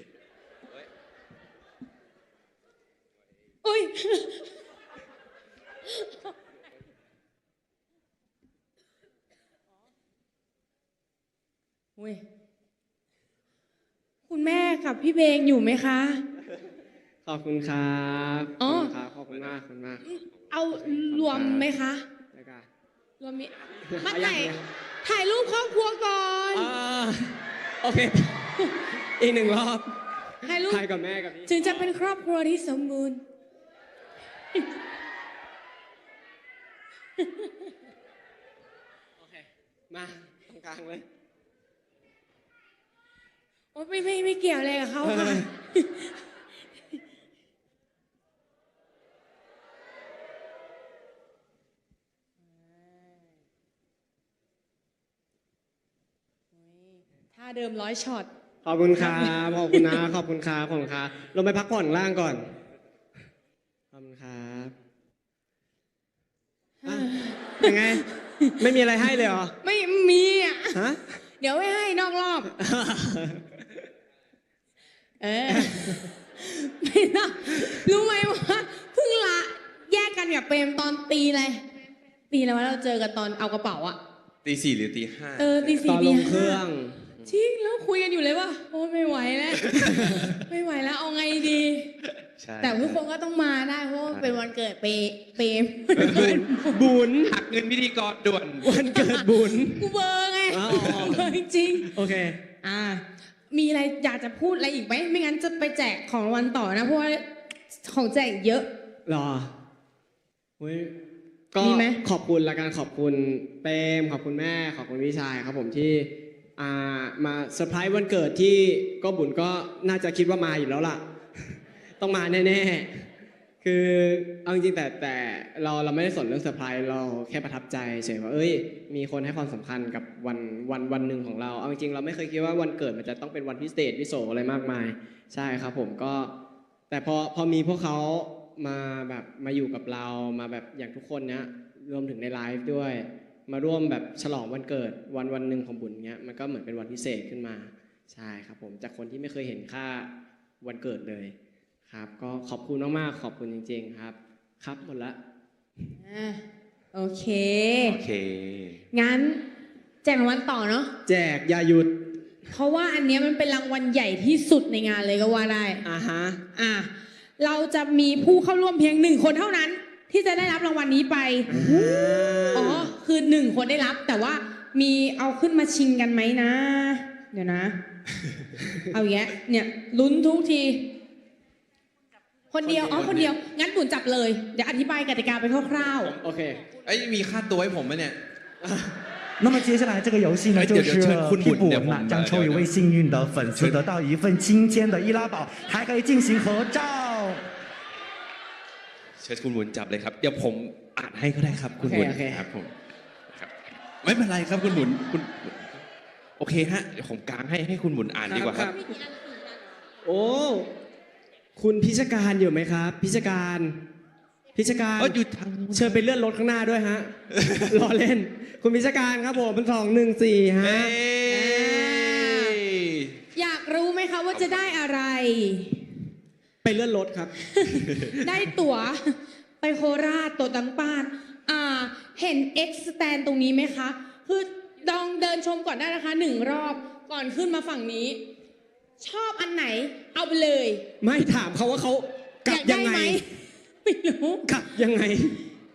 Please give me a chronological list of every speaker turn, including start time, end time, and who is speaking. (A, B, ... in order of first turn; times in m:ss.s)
0:03.6-0:04.6 A
0:05.8-0:06.3 A
0:12.0-0:12.2 A
0:14.3-0:16.2 A
0:17.3-0:20.0 B
0:18.6-0:18.9 A
0:19.3-0:19.6 C
0:20.0-0:22.1 A
0:20.4-0:20.7 C
0:20.8-0:21.7 B
0:22.3-0:22.7 B
0:23.2-0:26.7 A
0:23.9-0:24.6 B
0:26.5-0:31.9 B
0:30.4-0:30.8 A
0:31.5-0:33.2 A
0:37.2-0:37.7 A
0:39.2-0:41.1 B
0:43.7-0:46.1 A
0:45.0-0:45.5 B
0:52.4-0:53.3 A
0:56.5-0:58.3 A
0:58.6-1:02.5 B
0:59.0-1:00.0 A
1:03.9-1:04.8 B
1:06.8-1:08.6 A
1:06.8-1:09.6 B
1:09.6-1:10.8 A
1:10.7-1:11.2 B
1:11.4-1:12.5 A
1:12.6-1:13.8 B
1:15.2-1:21.6 A
1:15.5-1:16.1 B
1:22.3-1:24.0 A
1:24.4-1:25.6 C
1:25.4-1:26.6 A
1:25.6-1:27.1 B
1:27.3-1:31.9 A
1:29.6-1:30.1 C
1:29.8-1:30.4 B
1:32.2-1:33.0 C
1:32.6-1:36.9 A
1:34.1-1:34.4 C
1:36.0-1:36.5 C
1:36.0-1:37.4 B
1:37.2-1:38.8 C
1:38.6-1:39.9 B
1:39.0-1:42.0 A
1:40.5-1:41.2 B
1:41.8-1:42.4 B
1:42.6-1:48.7 A
1:49.1-1:49.5 B
1:50.6-1:51.0 B
1:51.5-2:03.0 B
1:51.6-1:52.0 A
2:03.6-2:16.3 B
2:16.9-2:30.1 B
2:30.6-2:31.3 B
2:31.9-2:35.2 B
2:36.0-2:38.0 A
2:37.8-2:38.8 C
2:38.9-2:39.4 A
2:40.0-2:40.9 A
2:41.0-2:41.9 B
2:42.5-2:45.8 A
2:45.8-2:46.4 B
2:46.5-2:57.8 A
2:51.5-2:52.9 B
2:58.9-3:00.9 A
3:02.5-3:06.2 A
3:02.6-3:03.4 C
3:06.2-3:06.6 B
3:06.7-3:08.2 C
3:08.6-3:09.0 B
3:09.4-3:17.5 D
3:10.5-3:12.7 C
3:19.2-3:22.7 C
3:21.8-3:22.5 B
3:23.3-3:25.7 C
3:26.4-3:28.7 C
3:28.3-3:28.8 B
3:28.6-3:29.6 A
3:30.0-3:30.7 B
3:31.6-3:33.8 B
3:34.5-3:35.2 B
3:35.0-3:36.1 C
3:35.7-3:41.0 B
3:37.4-3:37.7 C
3:40.6-3:43.2 C
3:41.3-3:42.6 A
3:43.4-3:45.9 A
3:44.3-3:44.8 C
3:46.6-3:47.4 B
3:47.4-3:58.2 A
3:59.0-4:00.8 A
4:01.0-4:03.2 B
4:02.5-4:04.4 A
4:04.4-4:05.4 B